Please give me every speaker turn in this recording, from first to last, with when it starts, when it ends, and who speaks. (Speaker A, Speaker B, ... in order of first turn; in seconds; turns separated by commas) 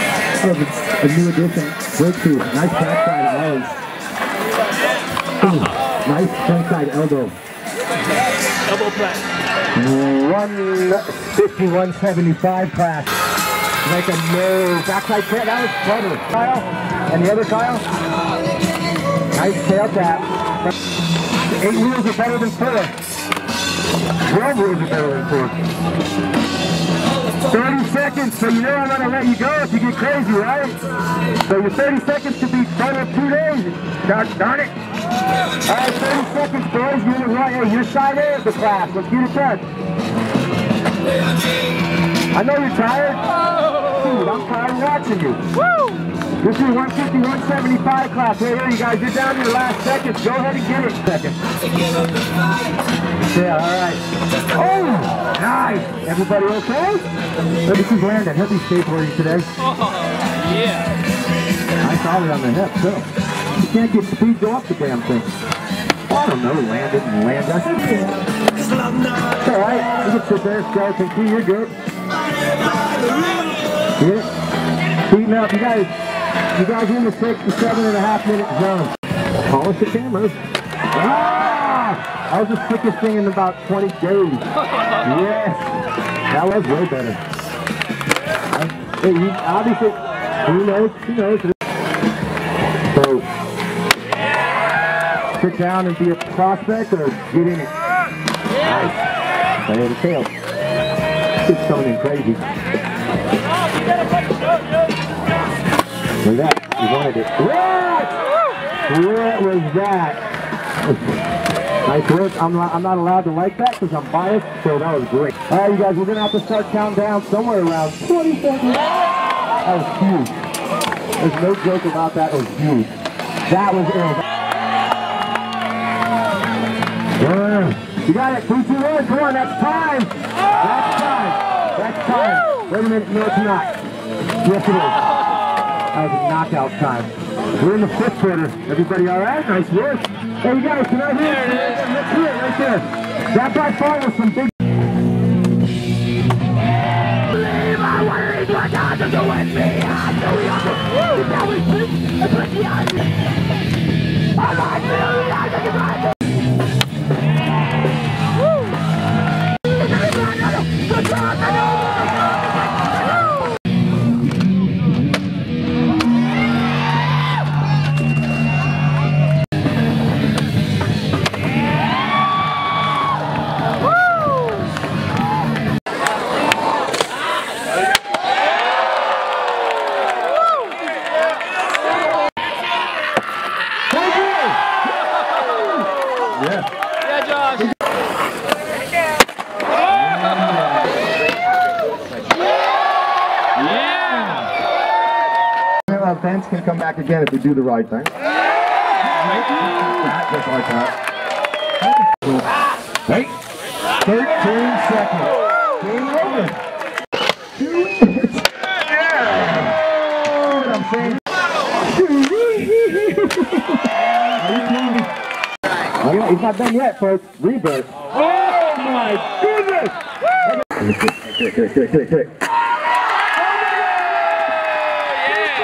Speaker A: 0.4-3.7, Speaker A: 5.4-7.3, Speaker A: 9.7-13.1, Speaker A: 13.8-17.8, Speaker A: 19.3-20.4, Speaker A: 21.4-22.9, Speaker A: 24.2-25.6, Speaker A: 27.4-30.8, Speaker A: 31.4-34.8, Speaker A: 35.6-39.6, Speaker A: 42.3-45.4, Speaker A: 46.4-51.4, Speaker A: 53.3-57.1, Speaker A: 57.6-59.5, Speaker A: 61.8-65.3, Speaker A: 66.1-68.2, Speaker A: 69.3-71.7, Speaker A: 74.0-74.3, Speaker A: 75.0-75.9, Speaker A: 76.5-80.4, Speaker A: 80.9-84.5, Speaker A: 85.0-85.7, Speaker A: 86.3-87.2, Speaker A: 88.5-91.5, Speaker A: 92.8-93.3, Speaker A: 95.3-97.7, Speaker A: 98.6-100.3, Speaker A: 101.4-102.5, Speaker A: 106.2-108.2, Speaker A: 108.8-110.2, Speaker A: 110.8-111.2, Speaker A: 111.8-118.9, Speaker A: 119.6-120.4, Speaker A: 121.2-122.9, Speaker A: 123.5-124.2, Speaker A: 127.2-133.8, Speaker A: 134.4-135.0, Speaker A: 135.9-144.5, Speaker A: 147.7-150.5, Speaker A: 151.2-152.7, Speaker A: 154.6-155.9, Speaker A: 195.9-198.1, Speaker A: 199.6-200.9, Speaker A: 204.0-206.6, Speaker A: 207.6-208.4, Speaker A: 209.1-209.6, Speaker A: 210.3-211.2, Speaker A: 211.9-213.7, Speaker A: 214.3-215.1, Speaker A: 216.0-222.3